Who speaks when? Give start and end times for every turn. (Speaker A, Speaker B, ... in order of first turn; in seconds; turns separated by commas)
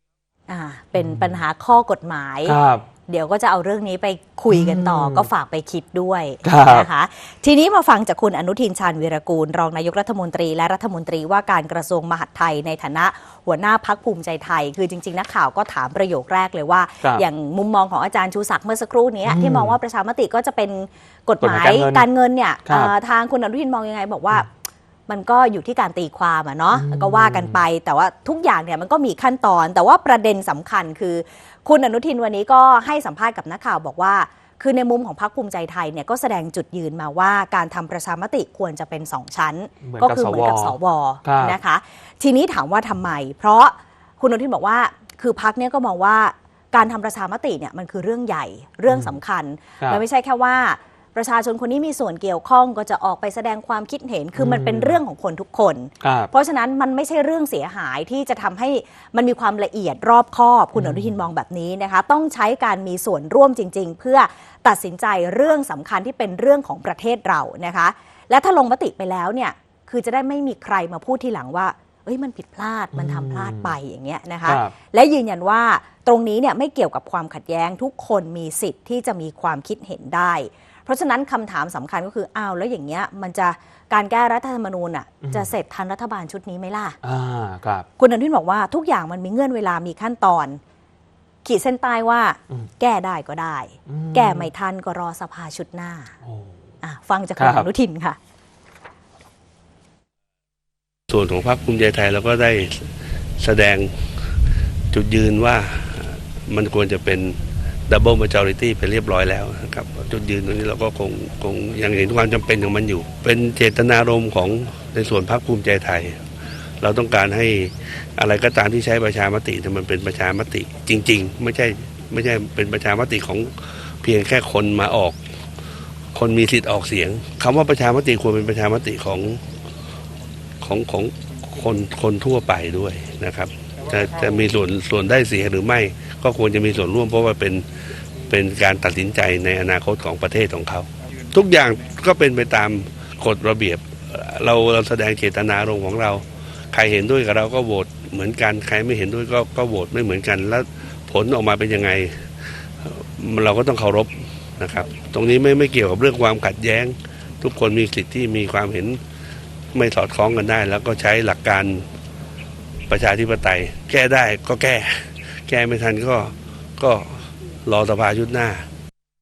Speaker A: 0.5-87.0, Speaker B: 1.0-1.3, Speaker B: 2.5-2.8, Speaker B: 4.5-5.3, Speaker B: 6.4-6.9, Speaker B: 19.2-19.8, Speaker B: 21.4-22.1, Speaker B: 22.6-22.9, Speaker B: 26.7-27.6, Speaker B: 39.8-41.6, Speaker B: 54.4-55.0, Speaker B: 56.0-56.3, Speaker B: 60.7-61.1, Speaker B: 72.9-73.8, Speaker B: 74.4-74.7, Speaker B: 85.2-85.5, Speaker B: 87.0-87.9, Speaker A: 88.0-90.6, Speaker A: 91.4-96.1, Speaker B: 93.8-94.5, Speaker B: 96.2-96.6, Speaker A: 96.8-98.2, Speaker B: 97.4-97.7, Speaker C: 101.1-104.3, Speaker C: 104.9-116.2, Speaker C: 116.8-125.2, Speaker C: 126.1-129.4, Speaker C: 130.6-137.7, Speaker C: 138.2-159.0, Speaker C: 159.7-161.8, Speaker C: 162.9-168.7